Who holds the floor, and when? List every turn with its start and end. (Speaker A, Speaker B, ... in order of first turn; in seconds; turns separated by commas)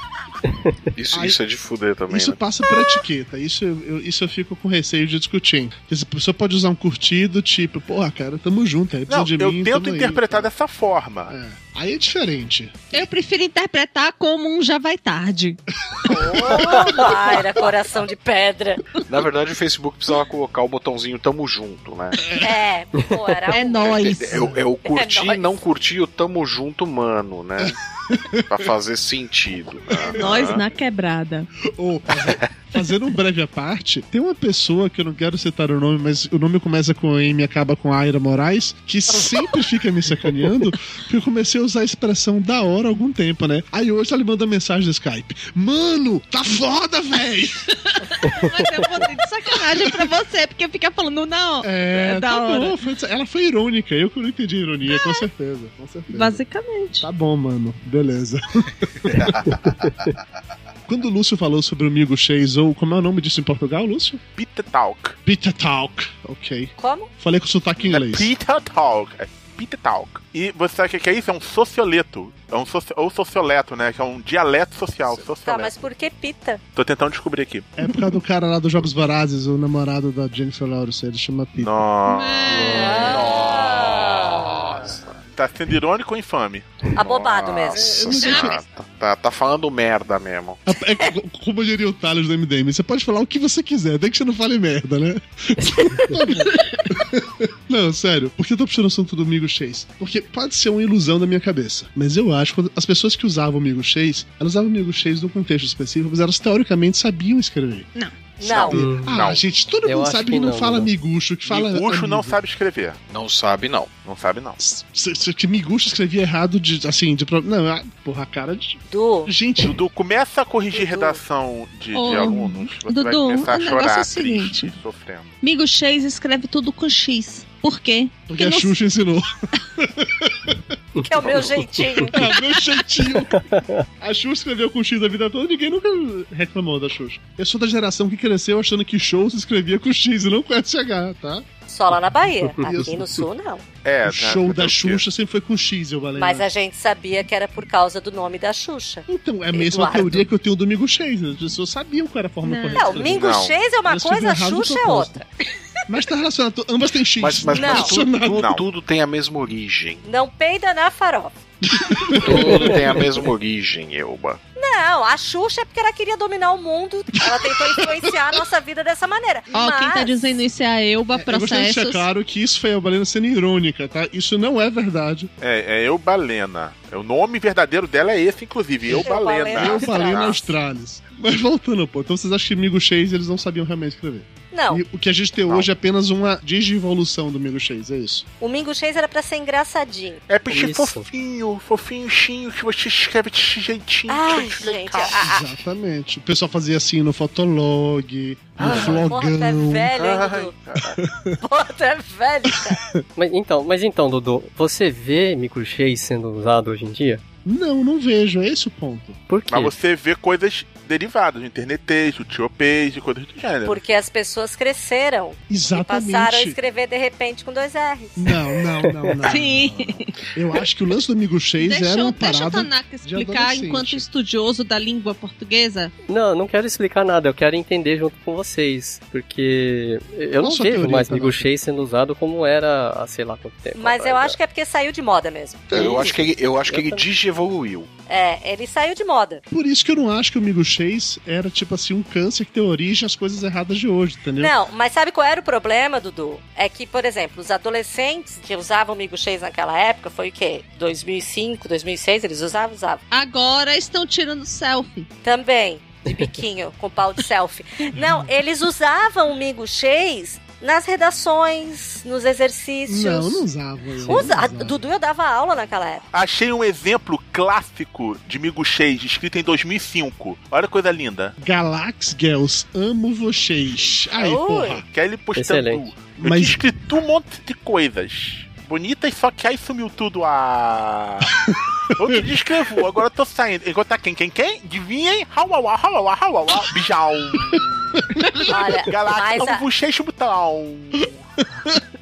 Speaker A: 0.9-2.4, Speaker B: 1.1-1.4, Speaker B: 2.1-10.5, Speaker C: 9.1-11.3, Speaker B: 11.3-13.0, Speaker D: 12.9-15.6, Speaker B: 15.9-17.4, Speaker E: 16.1-18.9, Speaker A: 19.1-22.4, Speaker B: 22.2-22.5, Speaker E: 22.4-24.1, Speaker D: 23.5-24.5, Speaker A: 23.8-27.8, Speaker B: 24.3-24.6, Speaker E: 24.9-25.5, Speaker B: 27.6-28.6, Speaker A: 28.5-30.6, Speaker B: 30.0-30.6, Speaker D: 30.1-31.5, Speaker B: 31.8-47.7, Speaker A: 32.2-32.5, Speaker D: 47.9-52.8, Speaker B: 51.6-56.4, Speaker D: 54.9-55.2, Speaker D: 56.1-57.1, Speaker B: 57.0-59.5, Speaker B: 60.9-64.2, Speaker C: 64.4-65.2, Speaker B: 65.2-68.3, Speaker E: 66.8-67.1, Speaker C: 67.8-75.9, Speaker E: 75.5-76.6, Speaker C: 76.8-77.7, Speaker B: 77.8-81.8, Speaker C: 81.6-83.2, Speaker D: 82.1-83.1, Speaker E: 82.8-84.6, Speaker A: 83.0-85.2, Speaker C: 85.4-86.7, Speaker E: 87.0-88.5, Speaker A: 87.0-90.6, Speaker B: 87.7-88.6, Speaker B: 90.7-107.9, Speaker E: 108.4-108.8, Speaker B: 108.4-112.4, Speaker F: 108.7-109.1, Speaker C: 109.1-109.4, Speaker F: 109.8-110.9, Speaker C: 111.5-113.0, Speaker A: 113.1-113.9, Speaker C: 114.0-114.6, Speaker B: 114.6-119.8, Speaker E: 118.9-119.3, Speaker C: 119.6-125.3, Speaker E: 120.7-121.2, Speaker D: 121.9-124.6, Speaker D: 125.4-128.7, Speaker B: 128.3-130.7, Speaker F: 131.0-131.4, Speaker E: 131.0-132.2, Speaker B: 132.1-133.4, Speaker F: 133.3-133.9, Speaker B: 134.0-141.5, Speaker E: 141.7-143.6, Speaker B: 142.6-143.2, Speaker C: 143.8-145.0, Speaker B: 144.1-146.5, Speaker E: 146.2-150.2, Speaker B: 149.1-155.2, Speaker D: 152.4-153.0, Speaker E: 152.8-155.2, Speaker C: 153.0-153.6, Speaker B: 155.9-158.5, Speaker A: 157.2-160.1, Speaker E: 157.5-157.9, Speaker C: 158.3-158.6, Speaker E: 160.1-161.4, Speaker B: 161.8-163.0, Speaker A: 162.1-164.4, Speaker E: 164.6-170.4, Speaker B: 167.3-168.2, Speaker D: 169.5-172.1, Speaker B: 171.1-175.3, Speaker C: 175.4-180.4, Speaker B: 178.9-188.2, Speaker E: 179.0-180.5, Speaker E: 184.5-184.8, Speaker E: 188.4-190.2, Speaker C: 190.3-195.2, Speaker F: 190.5-191.1, Speaker E: 194.1-195.4, Speaker B: 195.1-199.9, Speaker E: 198.6-200.9, Speaker A: 200.0-200.5, Speaker B: 201.0-201.4, Speaker E: 201.4-202.8, Speaker B: 202.6-202.9, Speaker F: 203.2-207.2, Speaker B: 207.4-209.2, Speaker F: 209.3-209.7, Speaker C: 209.5-213.8, Speaker E: 213.7-218.2, Speaker B: 215.5-216.6, Speaker B: 218.2-224.1, Speaker D: 219.2-220.2, Speaker D: 221.6-225.9, Speaker F: 226.1-234.4, Speaker B: 230.4-231.5, Speaker E: 233.8-236.2, Speaker A: 235.7-237.9, Speaker F: 236.7-237.0, Speaker E: 238.1-239.4, Speaker B: 239.5-244.5, Speaker E: 244.4-253.0, Speaker D: 253.1-255.1, Speaker E: 255.2-263.4, Speaker B: 262.9-264.8, Speaker E: 264.1-266.1, Speaker C: 266.1-271.4, Speaker B: 271.4-274.9, Speaker E: 274.2-274.8, Speaker C: 274.9-281.4, Speaker F: 275.4-275.9, Speaker B: 276.2-276.6, Speaker C: 281.9-291.2, Speaker B: 287.5-288.5, Speaker E: 288.5-289.6